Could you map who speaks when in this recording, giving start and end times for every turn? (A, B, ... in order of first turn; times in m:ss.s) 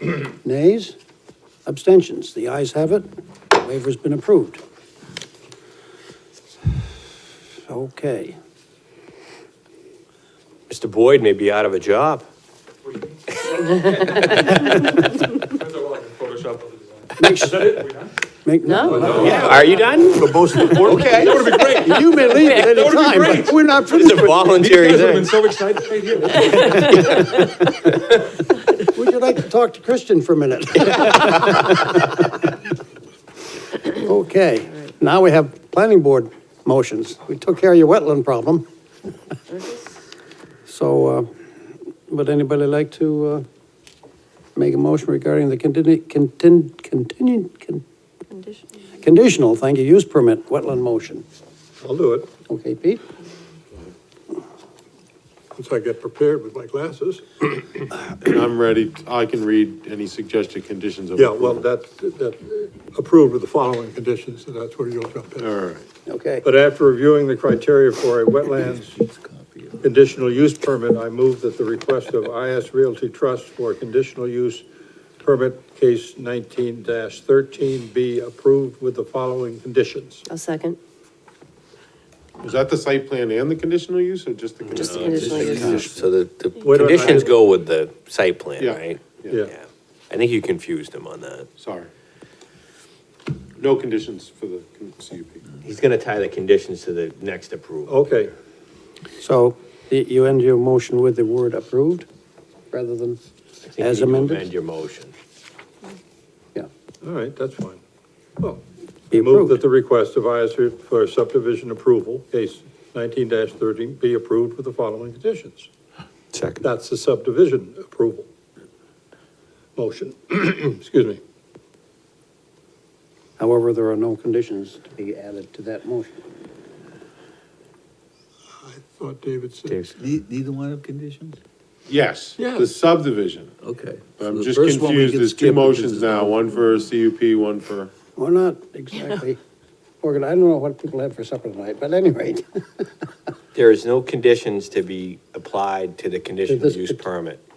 0:00.1-0:00.9 A
0:01.6-0:04.6 A
0:07.7-0:08.4 A
0:10.7-0:12.2 B
0:12.9-0:15.0 C
0:13.3-0:14.6 B
0:15.6-0:18.1 C
0:17.2-0:17.9 A
0:18.4-0:19.6 A
0:18.6-0:18.9 D
0:19.0-0:19.8 C
0:19.1-0:21.7 B
0:20.5-0:24.6 A
0:20.6-0:23.6 C
0:23.8-0:25.5 B
0:24.5-0:27.2 C
0:26.6-0:28.1 B
0:28.9-0:32.4 A
0:33.8-0:38.6 A
0:39.5-0:39.9 D
0:40.7-0:41.3 A
0:42.1-0:43.4 A
0:44.6-0:47.8 A
0:48.3-0:48.6 D
0:49.0-0:51.2 A
0:51.8-0:52.3 E
0:52.5-0:53.0 A
0:55.5-0:57.9 E
0:58.2-1:01.6 F
1:01.2-1:05.5 E
1:05.4-1:05.8 F
1:06.1-1:06.4 A
1:06.4-1:08.9 E
1:08.6-1:09.9 G
1:09.8-1:14.6 E
1:15.2-1:20.3 E
1:20.3-1:20.8 D
1:22.4-1:25.8 F
1:24.8-1:25.9 D
1:24.8-1:31.5 B
1:24.9-1:25.9 G
1:26.6-1:27.4 E
1:28.6-1:29.4 F
1:31.6-1:31.9 F
1:33.6-1:35.4 F
1:35.6-1:38.0 B
1:37.9-1:38.3 E
1:39.2-1:42.0 A
1:42.7-1:43.2 A
1:43.6-1:45.1 B
1:43.8-1:44.5 A
1:47.0-1:47.8 E
1:48.4-1:55.7 E
1:49.1-1:49.6 A
1:56.6-1:58.3 E
1:59.8-2:01.2 E
2:03.4-2:06.2 A
2:08.6-2:09.8 E
2:09.9-2:11.4 G
2:11.9-2:13.5 F
2:12.4-2:12.7 E
2:13.6-2:16.5 G
2:14.2-2:17.9 F
2:18.2-2:19.4 A
2:20.0-2:22.8 A
2:23.5-2:27.4 B
2:26.5-2:27.0 A